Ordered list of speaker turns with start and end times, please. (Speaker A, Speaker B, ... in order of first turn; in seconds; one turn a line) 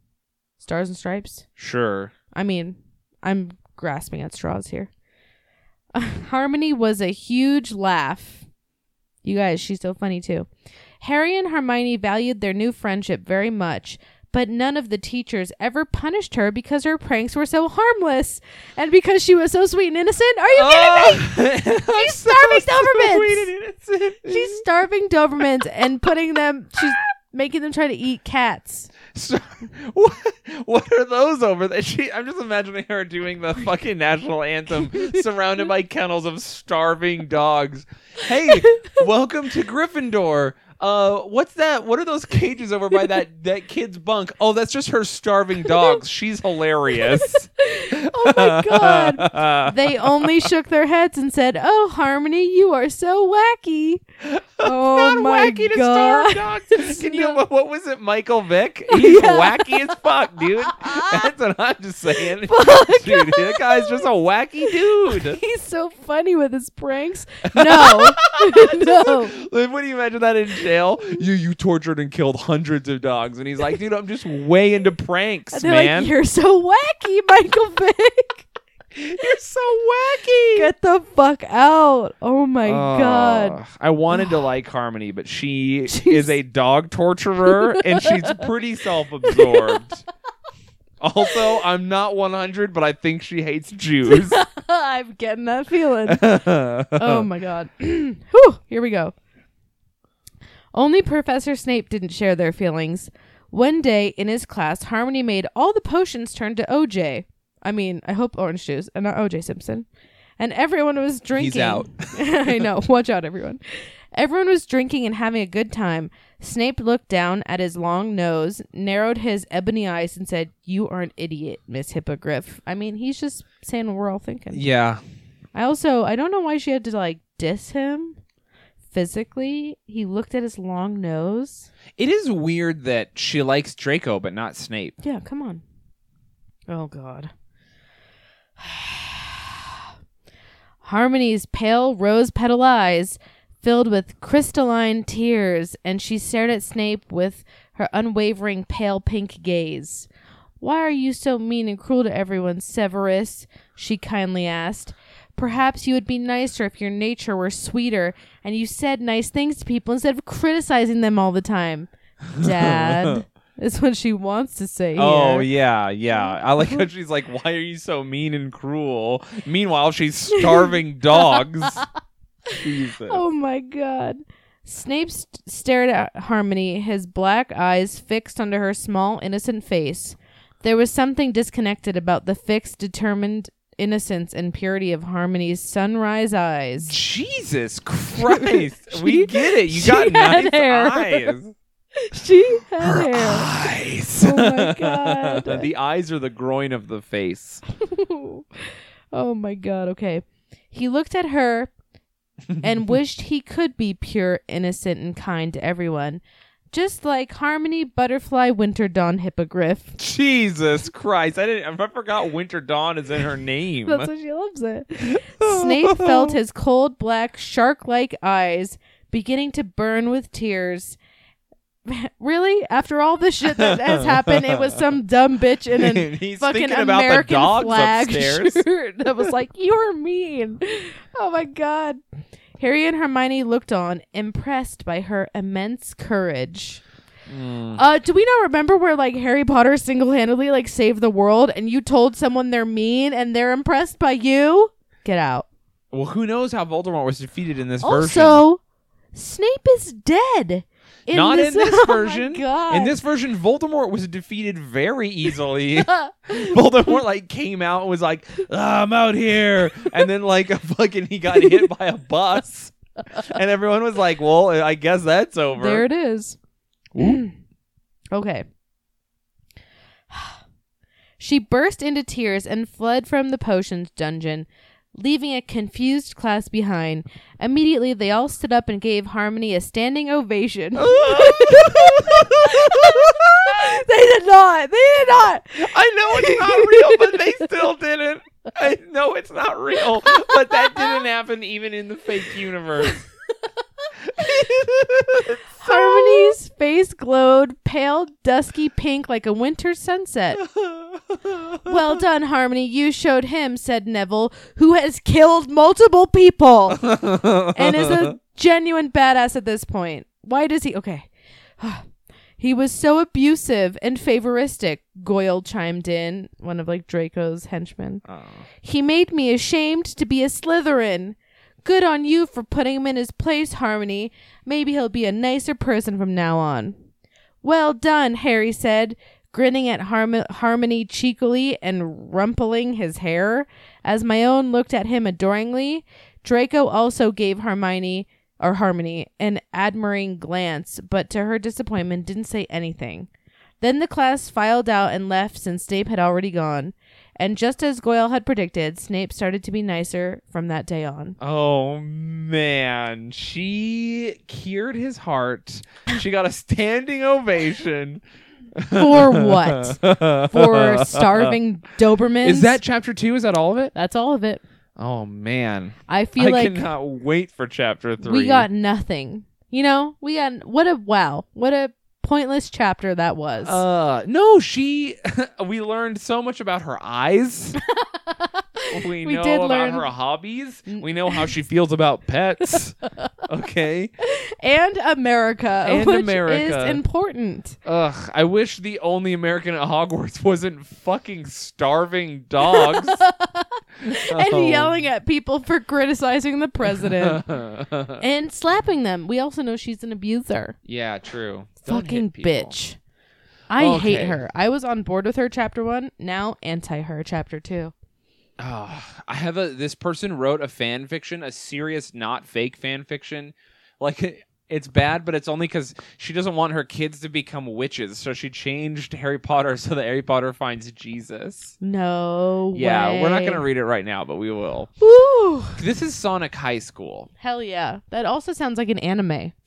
Speaker A: 0.6-1.4
Speaker B: 1.6-2.1
Speaker A: 2.3-4.9
Speaker A: 5.9-8.4
Speaker A: 9.2-10.5
Speaker A: 11.0-21.4
Speaker B: 20.5-24.6
Speaker A: 21.9-23.5
Speaker A: 24.2-28.9
Speaker B: 29.1-50.5
Speaker A: 38.5-38.9
Speaker A: 47.0-54.0
Speaker B: 54.2-65.4
Speaker A: 54.6-57.4
Speaker A: 58.9-59.9
Speaker A: 60.7-61.2
Speaker A: 62.4-64.1
Speaker A: 64.6-69.3
Speaker B: 67.5-76.1
Speaker A: 75.5-78.5
Speaker B: 78.9-80.7
Speaker A: 80.5-83.6
Speaker B: 82.6-90.0
Speaker A: 85.9-86.4
Speaker A: 87.5-88.4
Speaker A: 89.2-89.8
Speaker B: 91.0-94.4
Speaker A: 94.1-96.4
Speaker B: 96.1-97.3
Speaker A: 96.9-99.1
Speaker A: 100.7-109.8
Speaker A: 110.4-113.6
Speaker B: 111.3-112.7
Speaker A: 114.1-124.7
Speaker B: 124.5-125.0
Speaker A: 125.5-128.2
Speaker A: 128.9-131.7
Speaker B: 132.0-135.0
Speaker A: 135.0-135.6
Speaker A: 136.7-137.3
Speaker A: 138.6-139.7
Speaker A: 140.8-150.1
Speaker A: 150.6-165.5
Speaker B: 162.3-163.2
Speaker B: 165.0-171.8
Speaker A: 166.2-166.8
Speaker A: 170.3-171.8
Speaker A: 172.5-186.9
Speaker B: 172.6-173.2
Speaker B: 186.8-191.5
Speaker A: 188.2-191.3
Speaker A: 191.9-193.5
Speaker B: 192.8-197.6
Speaker A: 194.2-195.7
Speaker A: 197.8-201.7
Speaker A: 202.6-206.2
Speaker A: 206.7-209.9
Speaker B: 210.0-214.1
Speaker A: 213.8-221.0
Speaker B: 215.0-216.4
Speaker A: 221.8-232.0
Speaker B: 223.4-224.8
Speaker B: 225.8-228.6
Speaker A: 232.6-236.8
Speaker B: 237.3-237.8
Speaker A: 237.8-245.5
Speaker B: 245.9-248.4
Speaker A: 247.8-248.6
Speaker A: 249.1-252.9
Speaker B: 251.1-265.9
Speaker A: 255.9-256.6
Speaker A: 265.5-266.4
Speaker B: 266.9-267.2
Speaker A: 267.0-267.3
Speaker A: 268.1-268.4
Speaker A: 270.1-270.4
Speaker A: 271.2-287.5
Speaker B: 280.8-283.8
Speaker B: 285.6-293.0
Speaker A: 290.6-290.8
Speaker B: 294.0-296.4
Speaker A: 295.6-300.4
Speaker B: 300.4-302.0
Speaker A: 301.6-306.9
Speaker B: 306.8-308.1
Speaker A: 307.5-311.1
Speaker A: 311.6-311.9
Speaker A: 312.4-318.0
Speaker B: 318.1-318.4
Speaker A: 318.6-326.8
Speaker A: 327.4-343.1
Speaker A: 343.6-351.1
Speaker B: 351.2-358.0
Speaker B: 358.6-361.3
Speaker A: 358.7-362.6
Speaker B: 362.2-363.7
Speaker A: 363.7-364.4
Speaker B: 364.8-368.5
Speaker A: 365.9-366.7
Speaker A: 368.0-373.6
Speaker B: 373.4-377.6
Speaker A: 377.7-379.9
Speaker B: 378.7-382.7
Speaker A: 380.7-381.3
Speaker A: 382.5-383.1
Speaker B: 383.2-383.9
Speaker A: 384.0-387.6
Speaker B: 385.6-386.8
Speaker B: 387.6-393.0
Speaker A: 392.4-397.2
Speaker B: 393.8-394.9
Speaker B: 396.6-398.0
Speaker A: 398.0-400.6
Speaker B: 400.6-402.5
Speaker A: 401.6-402.8
Speaker A: 403.5-407.7
Speaker B: 403.6-404.2
Speaker B: 408.4-421.5
Speaker A: 421.6-423.4
Speaker B: 422.5-424.7
Speaker A: 424.8-425.6
Speaker B: 425.6-427.1
Speaker A: 427.2-429.3